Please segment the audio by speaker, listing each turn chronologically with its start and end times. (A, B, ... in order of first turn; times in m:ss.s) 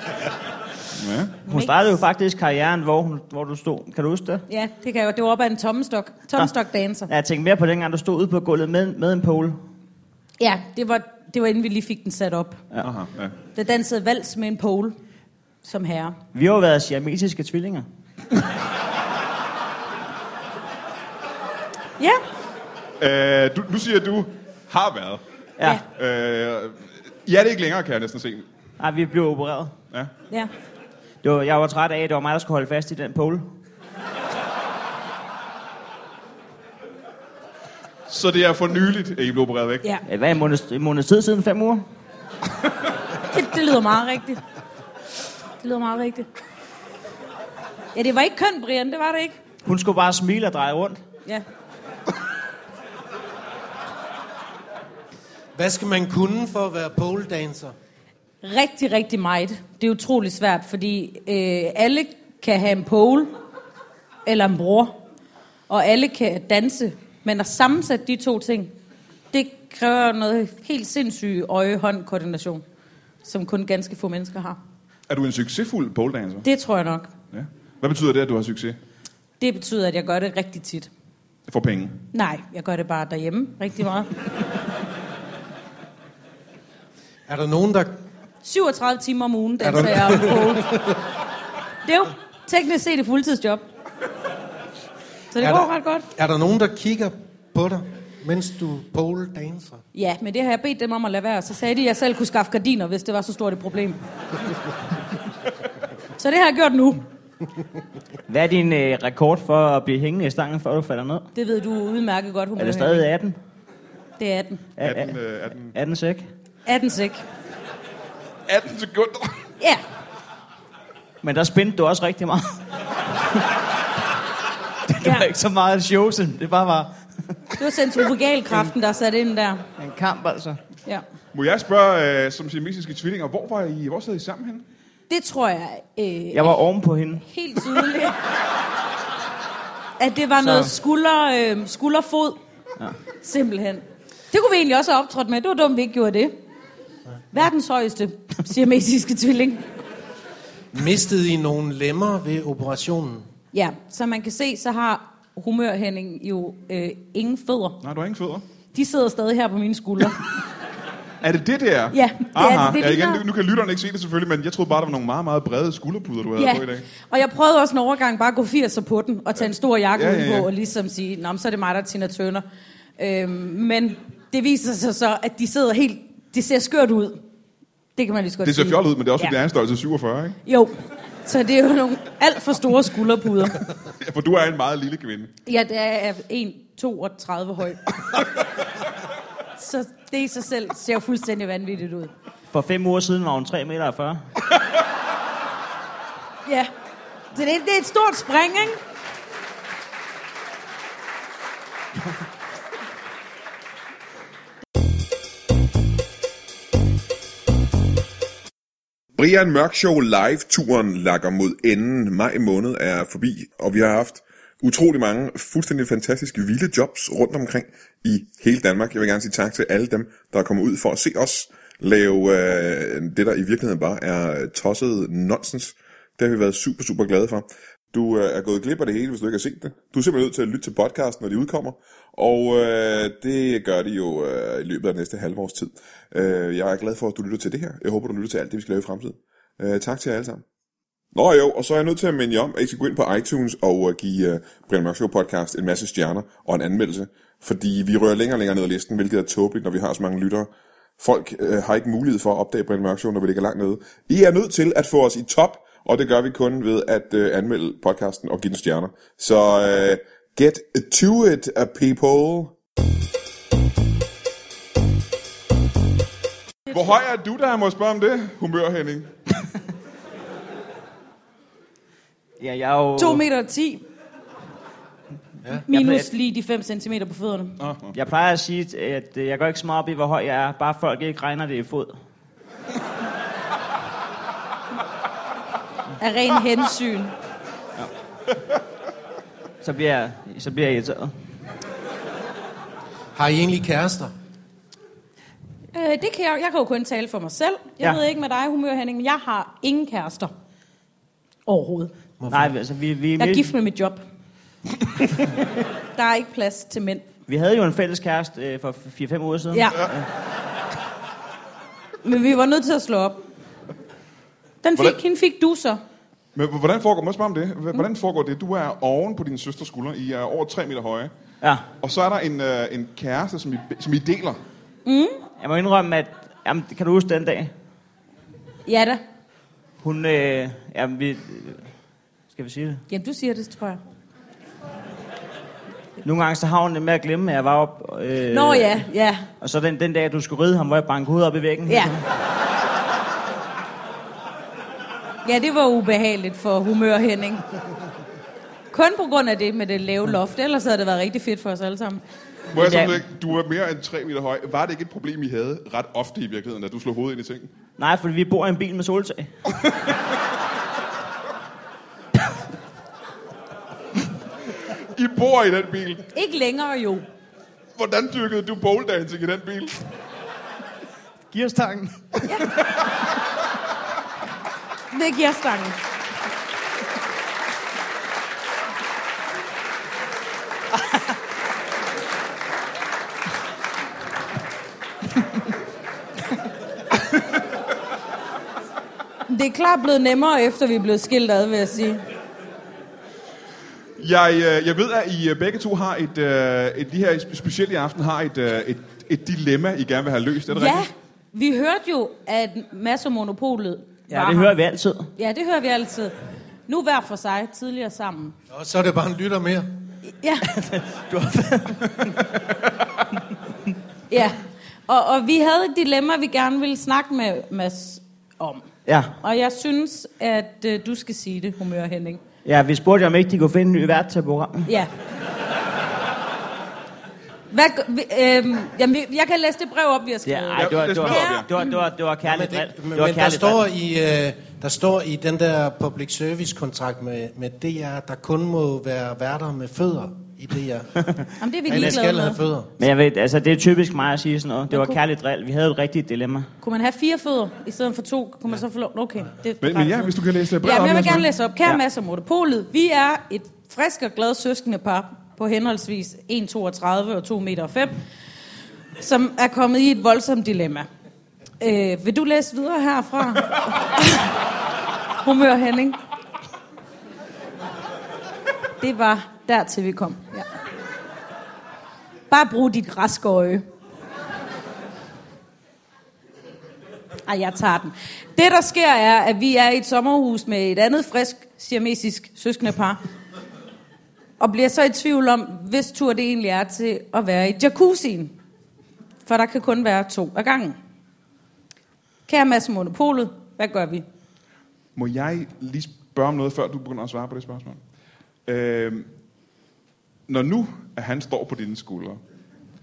0:01.0-0:01.4 A
0:01.5-0:01.7 B
0:01.5-0:04.4 C
0:04.5-0:07.1 B
0:07.1-0:09.6 C
0:10.4-0:12.6 B
0:12.8-0:13.3 A
0:13.5-0:15.0 B
0:15.6-0:16.2 B
0:16.3-0:17.8 C
0:23.0-0:25.2 A
0:25.9-0:28.4 A
0:28.8-0:29.7 C
0:31.2-0:33.5 C
0:38.1-0:39.8 A
0:40.0-0:41.8 C
0:43.3-0:44.4 B
0:45.6-0:46.2 B
0:47.9-0:49.4 B
0:49.6-0:51.0 C
0:55.5-0:57.7 D
0:58.4-1:03.3 B
1:04.2-1:05.0 B
1:05.7-1:08.7 B
1:09.3-1:12.6 B
1:13.2-1:14.6 B
1:15.1-1:16.5 A
1:16.4-1:17.1 B
1:17.3-1:18.8 A
1:19.4-1:20.9 B
1:21.5-1:22.0 A
1:22.1-1:24.2 B
1:27.3-1:28.0 D
1:28.4-1:30.8 B
1:29.6-1:31.0 D
1:31.8-1:33.6 B
1:35.3-1:36.1 B
1:35.4-1:39.8 D
1:39.9-1:44.0 B
1:46.2-1:47.0 B
1:48.3-1:51.3 C
1:51.3-1:53.1 B
1:52.6-1:53.4 C
1:54.2-1:54.6 B
1:54.8-1:55.1 C
1:54.8-1:55.7 A
1:55.7-1:56.3 C
1:56.6-1:57.2 B
1:58.5-1:59.4 A
2:01.2-2:02.6 C
2:04.9-2:06.9 C
2:07.6-2:09.6 B
2:09.8-2:10.6 C
2:11.3-2:14.6 A
2:15.1-2:16.5 B
2:16.3-2:17.3 C
2:17.2-2:18.2 B
2:20.0-2:22.4 B
2:20.4-2:20.7 C
2:23.2-2:26.3 B
2:27.3-2:29.7 B
2:30.7-2:33.3 D
2:33.5-2:37.8 B
2:37.8-2:38.4 A
2:38.7-2:40.3 B
2:41.2-2:46.9 A
2:41.9-2:43.2 B
2:46.4-2:52.4 B
2:49.9-2:50.5 A
2:53.0-2:57.2 B
2:58.0-2:59.3 B
2:58.4-3:00.4 A
3:00.4-3:00.7 B
3:01.2-3:03.6 B
3:04.0-3:05.3 A
3:05.4-3:08.0 B
3:09.6-3:12.1 B
3:12.5-3:14.2 C
3:16.4-3:16.7 B
3:17.3-3:18.8 B
3:29.1-4:00.4 E
4:01.1-4:22.5 E
4:26.7-4:29.1 A
4:32.4-4:33.2 C
4:33.0-4:33.8 B
4:35.7-4:37.6 B
4:35.7-4:36.1 C
4:37.6-4:37.9 A
4:37.9-4:42.0 C
4:46.0-4:47.1 B
4:49.6-4:51.1 C
4:53.1-4:54.1 D
4:55.7-5:00.3 B
5:01.4-5:01.9 B
5:02.2-5:02.5 D
5:02.3-5:03.5 C
5:03.2-5:04.0 B
5:05.9-5:07.0 B
5:07.3-5:10.0 C
5:09.5-5:09.9 B
5:12.0-5:13.2 B
5:14.6-5:15.8 B
5:16.3-5:21.1 A
5:21.4-5:21.7 C
5:21.8-5:24.4 A
5:24.8-5:25.2 B
5:25.4-5:27.5 C
5:28.6-5:29.0 B
5:29.8-5:31.7 C
5:32.3-5:32.8 C
5:32.9-5:33.8 B
5:36.0-5:38.8 C
5:38.3-5:39.2 B
5:39.4-5:42.0 C
5:41.7-5:42.0 B
5:45.2-5:47.4 B
5:48.7-5:52.0 B
5:52.5-5:57.5 A
5:52.5-5:53.0 C
5:57.8-5:59.3 C
6:04.6-6:06.0 A
6:06.1-6:07.0 B
6:07.8-6:09.8 A
6:11.3-6:12.5 C
6:14.9-6:15.8 B
6:29.3-6:32.0 B
6:34.0-6:40.8 A
6:40.5-6:44.5 B
6:44.1-6:45.1 C
6:45.2-6:46.1 B
6:46.7-6:48.3 B
6:48.5-6:49.7 D
6:50.1-6:50.5 B
6:50.4-6:52.2 C
6:54.1-6:58.6 B
6:58.9-6:59.1 C
6:59.2-7:02.2 B
7:02.4-7:04.7 C
7:04.6-7:04.9 B
7:07.5-7:11.8 B
7:10.2-7:13.6 C
7:10.6-7:11.5 A
7:12.2-7:20.9 D
7:21.0-7:21.3 C
7:21.4-7:22.4 B
7:21.6-7:22.7 D
7:22.8-7:26.5 C
7:24.7-7:25.0 B
7:26.6-7:38.0 B
7:29.6-7:31.3 A
7:39.0-7:40.9 B
7:41.6-7:44.4 B
7:45.2-7:46.0 B
7:48.8-7:50.4 B
7:52.3-7:53.6 B
7:57.2-8:03.0 B
8:04.4-8:08.3 B
8:09.2-8:10.8 B
8:12.3-8:14.0 B
8:15.0-8:17.8 A
8:18.4-8:19.1 A
8:20.3-8:22.2 A